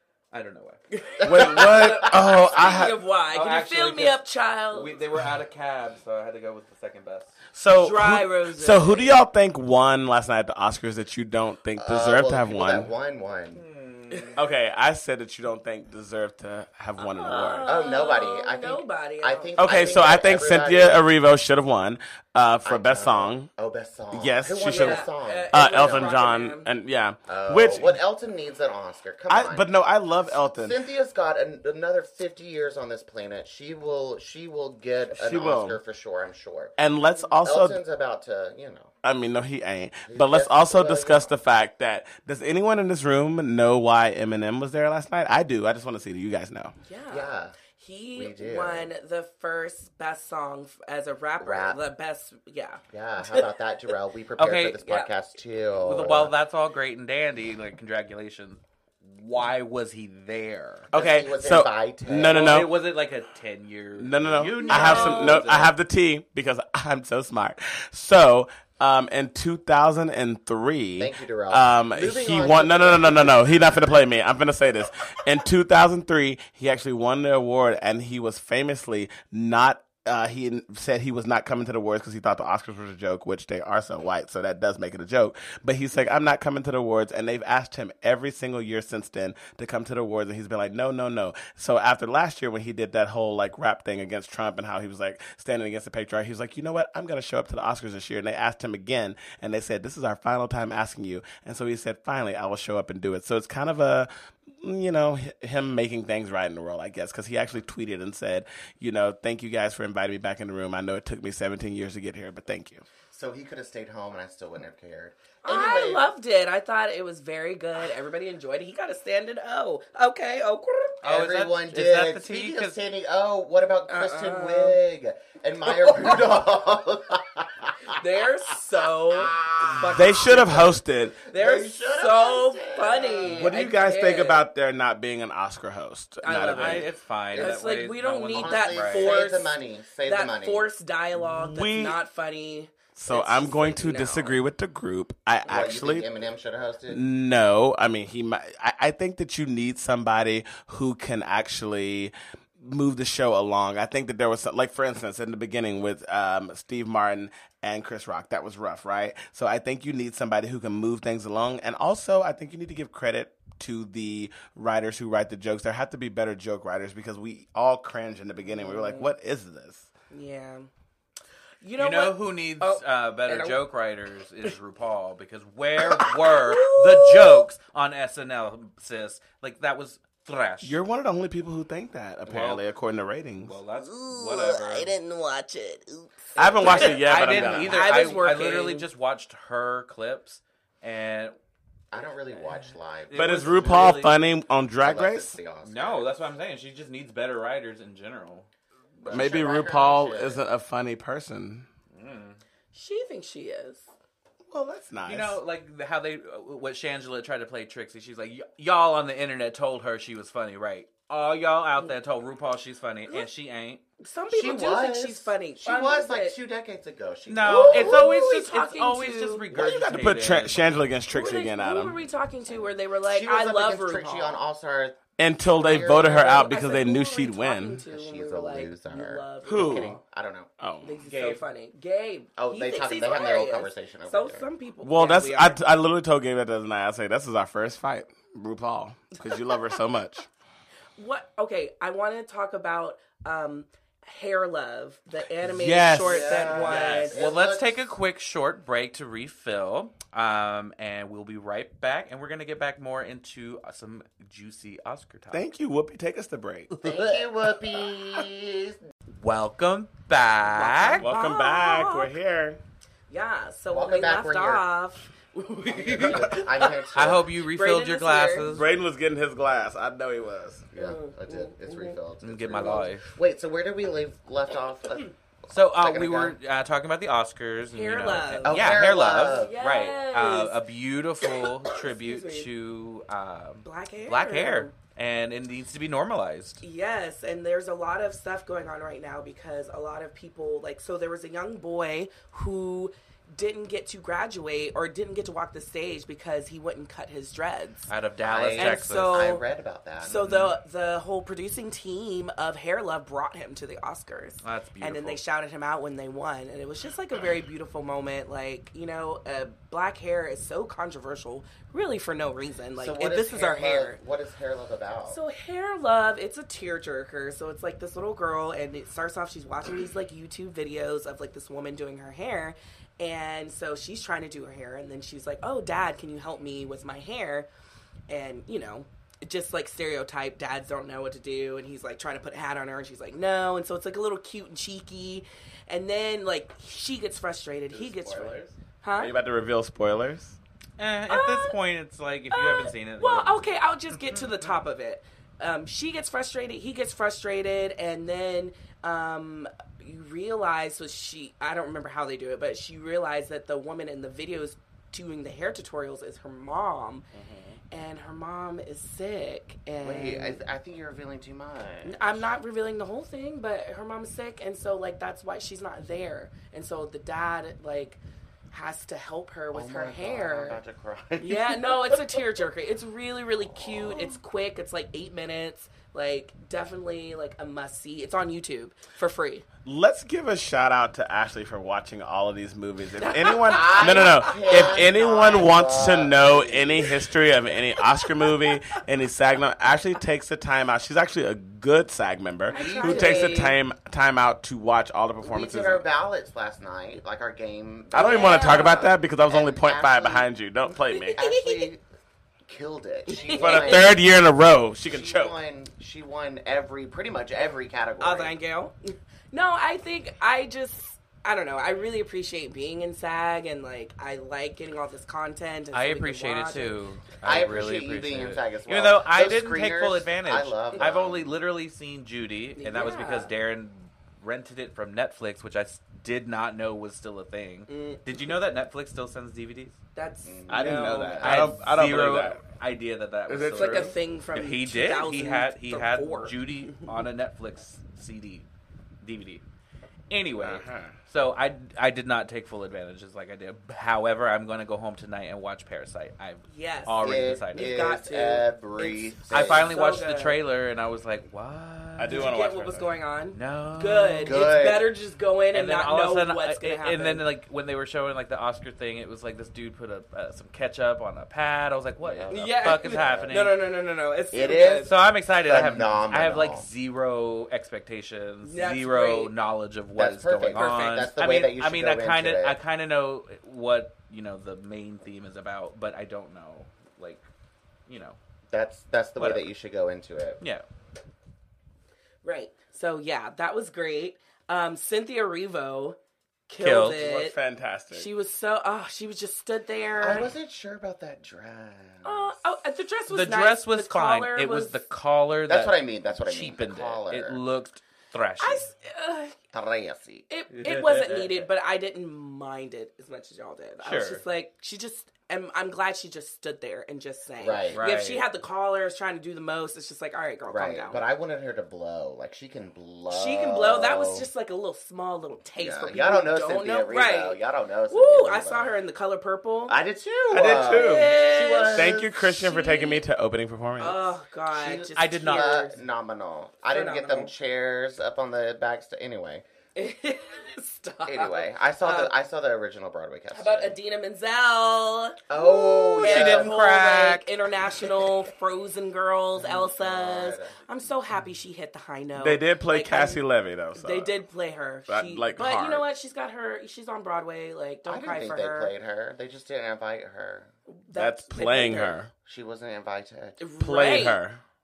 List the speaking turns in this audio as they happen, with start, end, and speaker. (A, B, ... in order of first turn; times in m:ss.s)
0:00.3-0:00.8 A
0:00.9-0:04.9 B
0:01.2-0:02.1 C
0:01.2-0:03.0 D
0:03.3-0:07.4 A
0:07.5-0:12.9 D
0:07.7-0:09.2 B
0:11.8-0:13.6 C
0:13.5-0:14.4 A
0:14.4-0:17.7 D
0:17.0-0:19.9 B
0:17.6-0:21.0 C
0:19.6-0:23.5 D
0:22.6-0:26.2 C
0:24.1-0:28.0 D
0:24.6-0:26.7 B
0:27.3-0:29.8 C
0:29.3-0:30.8 D
0:30.3-0:36.8 C
0:35.1-0:35.8 D
0:36.8-0:37.8 D
0:37.4-0:38.9 C
0:39.0-0:46.7 D
0:40.1-0:41.3 C
0:46.8-0:53.4 B
0:47.1-0:47.6 C
0:48.1-0:48.9 C
0:51.4-0:51.8 C
0:52.9-0:56.3 C
0:54.4-0:54.8 A
0:54.8-0:55.1 B
0:55.8-1:00.9 A
1:00.9-1:02.7 C
1:00.9-1:02.7 D
1:02.2-1:05.7 A
1:04.0-1:52.8 D
1:04.6-1:05.5 B
1:11.0-1:13.5 C
1:53.1-1:56.1 C
1:55.4-2:01.0 B
2:01.0-2:02.8 A
2:01.0-2:08.0 C
2:03.9-2:04.8 B
2:05.8-2:06.2 B
2:07.9-2:10.7 B
2:09.1-2:10.6 C
2:09.8-2:11.2 D
2:11.3-2:14.4 B
2:11.3-2:13.5 C
2:13.2-2:16.9 D
2:16.2-2:24.4 B
2:16.4-2:19.2 A
2:17.3-2:17.6 C
2:18.3-2:20.6 C
2:21.2-2:22.0 D
2:23.0-2:26.0 D
2:25.4-2:27.0 C
2:26.9-2:49.9 D
2:48.4-2:49.1 B
2:50.1-2:50.7 B
2:51.6-2:53.6 B
2:51.8-3:00.8 A
2:55.8-2:57.4 B
3:00.6-3:03.6 D
3:02.2-3:02.6 A
3:03.4-3:04.9 A
3:03.8-3:08.8 B
3:06.4-3:08.1 D
3:06.6-3:11.3 A
3:11.9-3:14.0 C
3:12.3-3:14.2 A
3:13.1-3:15.4 D
3:14.8-3:16.1 C
3:15.6-3:18.5 A
3:19.0-3:19.3 A
3:19.0-3:20.4 C
3:19.1-3:21.7 D
3:21.9-3:22.4 A
3:22.7-3:23.9 B
3:24.5-3:25.4 D
3:25.0-3:33.8 A
3:34.0-3:36.3 B
3:34.3-3:38.1 C
3:37.3-3:40.6 A
3:37.4-3:39.5 B
3:39.5-3:42.0 D
3:39.6-3:40.0 C
3:41.1-3:44.4 B
3:42.5-3:45.0 C
3:45.2-3:47.8 D
3:45.5-3:46.6 C
3:45.7-3:50.0 B
3:47.9-3:50.5 C
3:49.4-3:50.0 D
3:50.6-3:51.0 D
3:50.8-3:55.6 B
3:51.1-3:51.4 A
3:52.4-3:54.5 C
3:54.8-4:00.3 D
4:01.0-4:07.2 B
4:05.4-4:06.8 D
4:06.0-4:07.9 C
4:06.4-4:15.4 A
4:15.3-4:16.7 D
4:16.8-4:17.2 A
4:16.8-4:18.8 C
4:19.2-4:21.1 A
4:20.4-4:22.1 B
4:21.0-4:22.6 D
4:23.1-4:26.9 B
4:23.7-4:24.6 C
4:25.7-4:27.3 C
4:26.9-4:28.7 A
4:27.4-4:28.5 B
4:28.5-4:30.6 D
4:30.7-4:35.1 C
4:30.8-4:32.0 B
4:32.2-4:33.0 A
4:35.5-4:46.6 A
4:35.8-4:36.4 C
4:37.7-4:40.6 B
4:38.4-4:39.6 C
4:41.2-4:42.5 B
4:43.6-4:44.7 B
4:46.6-4:57.9 B
4:57.9-4:59.2 A
4:58.2-5:00.2 C
4:58.6-4:59.4 B
5:00.0-5:14.0 B
5:00.0-5:00.5 A
5:04.4-5:05.2 A
5:12.8-5:15.2 C
5:15.1-5:27.5 B
5:28.1-5:39.1 B
5:37.7-5:38.6 A
5:39.0-5:40.4 D
5:40.8-5:44.5 A
5:41.1-5:41.6 B
5:42.3-5:57.0 B
5:57.1-5:57.4 D
5:57.7-6:00.4 B
5:59.8-6:02.3 C
6:01.8-6:10.6 B
6:09.5-6:12.2 C
6:11.2-6:19.4 B
6:13.4-6:14.2 C
6:19.6-6:35.8 D
6:23.0-6:24.8 B
6:23.4-6:27.0 C
6:28.0-6:28.5 B
6:32.5-6:33.6 B
6:32.5-6:33.5 C
6:35.2-6:40.3 C
6:37.9-6:41.2 D
6:37.9-6:38.9 B
6:40.9-6:41.7 B
6:41.2-6:41.8 C
6:42.4-6:44.0 C
6:43.1-6:43.9 B
6:43.3-6:45.4 D
6:44.9-6:48.3 C
6:48.0-6:56.8 B
6:55.7-7:09.8 A
6:57.2-7:01.3 C
7:02.6-7:03.3 B
7:07.7-7:08.1 B
7:09.9-7:11.2 B
7:10.2-7:11.4 C
7:10.5-7:12.4 D
7:11.2-7:18.5 A
7:13.3-7:13.9 D
7:13.5-7:17.0 B
7:19.0-7:19.4 A
7:20.1-7:28.0 A
7:20.4-7:20.9 D
7:26.4-7:30.4 B
7:27.0-7:29.8 C
7:29.3-7:32.3 A
7:32.0-7:32.9 D
7:32.1-7:37.2 B
7:33.3-7:34.5 A
7:34.2-7:34.9 C
7:35.5-7:43.6 A
7:42.0-7:43.4 C
7:42.3-7:44.9 B
7:44.3-7:46.7 C
7:44.8-7:57.2 A
7:48.4-7:49.3 B
7:50.0-7:52.6 C
7:50.5-7:51.0 B
7:57.9-7:58.2 A
7:58.5-8:00.4 C
7:59.2-7:59.5 A
8:02.2-8:06.0 B
8:06.5-8:07.4 B
8:06.6-8:07.0 A
8:06.9-8:08.1 D
8:07.9-8:10.3 B
8:10.0-8:12.5 C
8:12.0-8:14.8 B
8:13.1-8:18.7 A
8:15.5-8:17.4 C
8:18.4-8:19.4 B
8:19.5-8:20.2 C
8:20.3-8:31.0 B
8:20.5-8:21.4 A
8:23.8-8:24.2 A
8:27.4-8:27.8 C
8:27.7-8:28.2 A
8:30.5-8:34.3 C
8:33.1-8:37.4 B
8:35.6-8:38.7 C
8:37.9-8:39.8 B
8:39.7-8:42.1 C
8:40.3-8:41.2 D
8:40.5-8:43.0 B
8:41.7-8:44.1 D
8:43.8-8:45.8 B
8:44.5-8:49.4 C
8:44.9-8:45.6 A
8:46.7-8:47.3 B
8:49.7-8:52.1 B
8:51.0-8:53.8 C
8:53.3-9:03.2 B
8:55.3-8:56.5 C
8:55.9-8:57.3 A
8:59.4-9:00.7 C
9:02.2-9:04.1 D
9:03.7-9:08.7 B
9:04.9-9:05.8 D
9:07.8-9:10.5 C
9:10.7-9:12.0 B
9:10.9-9:12.1 D
9:12.2-9:13.4 C
9:13.4-9:14.2 B
9:13.6-9:14.4 D